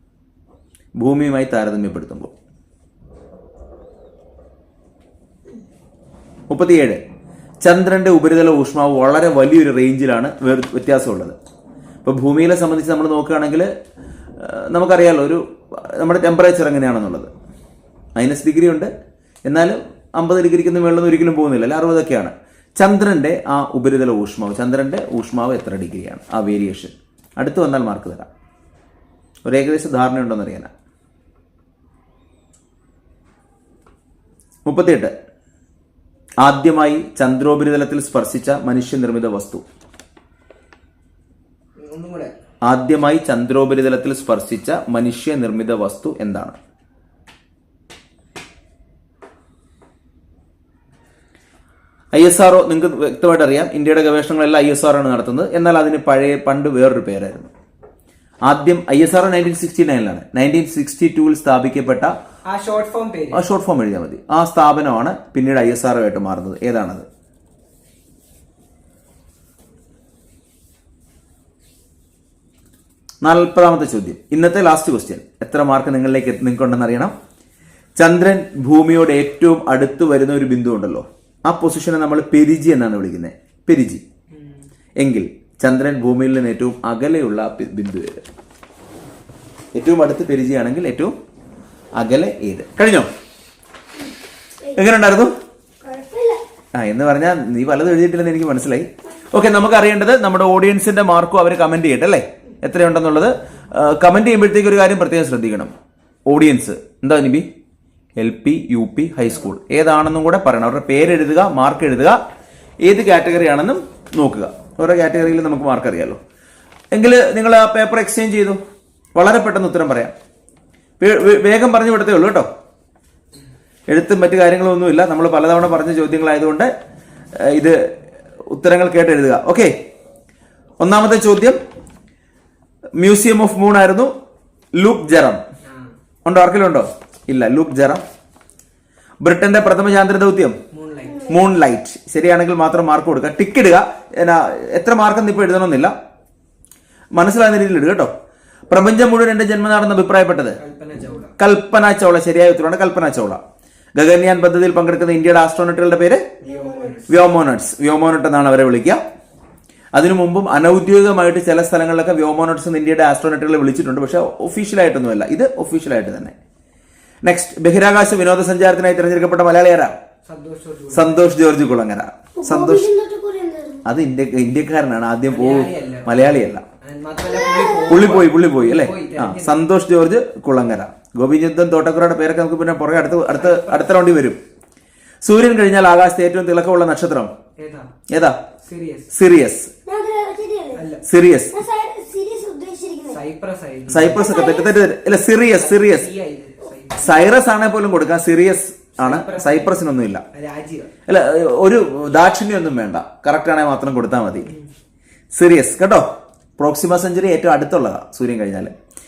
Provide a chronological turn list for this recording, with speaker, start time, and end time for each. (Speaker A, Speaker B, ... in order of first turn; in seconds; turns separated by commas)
Speaker A: 1.0-2.3, Speaker A: 6.5-7.0, Speaker A: 7.6-11.3, Speaker A: 12.0-13.7, Speaker A: 14.4-17.3, Speaker A: 18.1-18.9, Speaker A: 19.4-28.3, Speaker A: 29.4-30.7, Speaker A: 34.6-35.1, Speaker A: 36.4-39.6, Speaker B: 41.8-42.3, Speaker A: 42.6-46.6, Speaker A: 52.1-57.5, Speaker A: 58.5-62.1, Speaker B: 62.5-63.4, Speaker A: 63.3-67.1, Speaker A: 73.2-77.1, Speaker A: 78.0-84.0, Speaker A: 85.0-88.2, Speaker A: 89.7-91.1, Speaker A: 92.0-93.1, Speaker A: 94.7-95.3, Speaker C: 95.8-96.4, Speaker A: 96.7-105.7, Speaker A: 106.3-107.5, Speaker A: 108.2-112.2, Speaker A: 112.8-116.2, Speaker A: 116.9-118.6, Speaker A: 119.2-120.1, Speaker A: 121.0-122.5, Speaker A: 123.9-126.7, Speaker A: 127.3-127.9, Speaker A: 128.4-129.8, Speaker A: 130.8-131.6, Speaker A: 133.0-134.1, Speaker A: 134.8-135.4, Speaker B: 135.6-135.9, Speaker A: 136.2-138.0, Speaker A: 139.2-140.6, Speaker B: 140.7-141.3, Speaker C: 141.1-141.4, Speaker A: 141.3-145.9, Speaker A: 147.1-148.1, Speaker A: 148.7-150.6, Speaker B: 150.6-151.3, Speaker A: 151.4-153.4, Speaker A: 153.9-156.2, Speaker B: 156.4-157.1, Speaker C: 156.4-157.0, Speaker A: 157.1-159.0, Speaker A: 159.9-166.3, Speaker A: 167.2-170.0, Speaker B: 170.3-171.1, Speaker A: 170.9-172.9, Speaker C: 172.3-173.8, Speaker A: 173.8-176.6, Speaker B: 175.3-179.6, Speaker C: 177.2-178.1, Speaker A: 177.9-184.4, Speaker B: 183.3-183.9, Speaker A: 185.2-187.3, Speaker B: 187.6-187.9, Speaker A: 188.1-188.4, Speaker B: 188.6-189.1, Speaker A: 189.1-189.7, Speaker C: 189.8-190.9, Speaker B: 190.7-191.0, Speaker A: 191.0-191.5, Speaker C: 191.5-193.2, Speaker B: 193.1-194.5, Speaker A: 193.9-196.1, Speaker C: 194.1-194.9, Speaker B: 195.5-197.2, Speaker A: 197.0-200.2, Speaker B: 199.0-199.8, Speaker B: 200.3-200.9, Speaker A: 201.1-204.5, Speaker A: 205.3-206.1, Speaker A: 206.6-208.7